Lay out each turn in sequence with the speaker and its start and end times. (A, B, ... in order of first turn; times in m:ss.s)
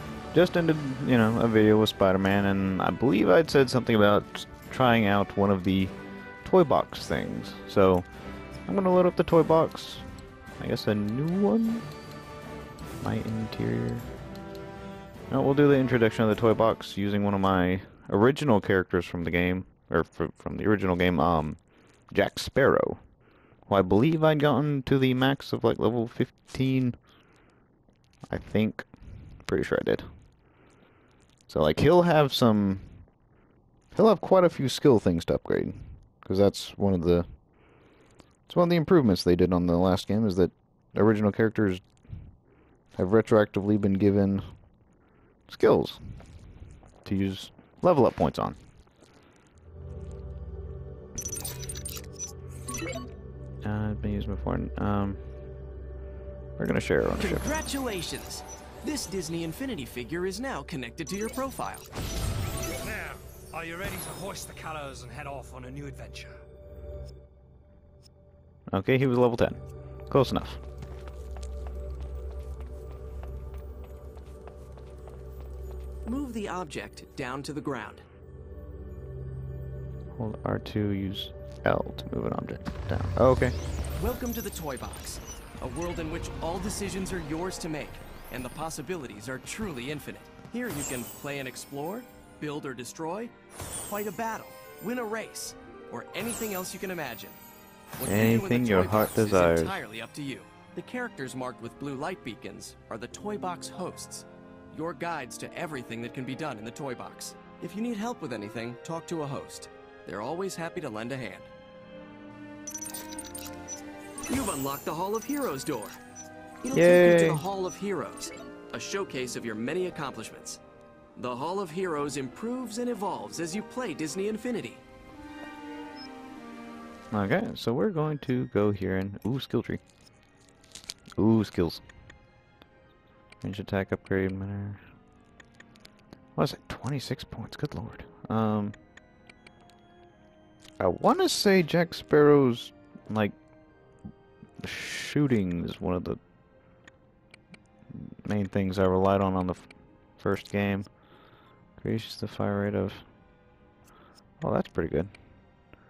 0:00.3-0:08.1 A
0:08.7-0:10.0 A
0:10.6-0:11.8 A
0:13.0-0:14.1 A
0:15.3-0:23.0 A
0:23.6-0:27.0 A
0:28.3-0:28.9 A
0:29.4-0:30.1 A
0:31.5-0:33.1 A
0:33.9-0:37.2 A
0:38.5-0:41.8 A
0:42.9-0:44.6 A
0:45.5-0:46.4 A
0:47.0-0:48.6 A
0:53.6-0:55.5 A
0:56.6-0:57.6 A
0:57.2-1:01.9 B
1:02.8-1:06.4 C
1:08.7-1:10.6 A
1:16.0-1:18.0 B
1:20.2-1:23.6 A
1:23.9-1:37.4 B
1:38.0-1:51.5 B
1:38.0-1:39.8 A
1:54.3-1:56.0 B
1:56.6-2:00.6 B
1:56.7-1:57.4 A
2:01.2-2:04.8 B
2:07.1-2:09.8 A
2:11.2-2:11.8 A
2:13.4-2:14.8 A
2:16.4-2:18.8 A
2:20.8-2:23.4 A
2:24.6-2:26.2 A
2:27.9-2:30.9 A
2:31.8-2:33.0 A
2:34.4-2:35.1 A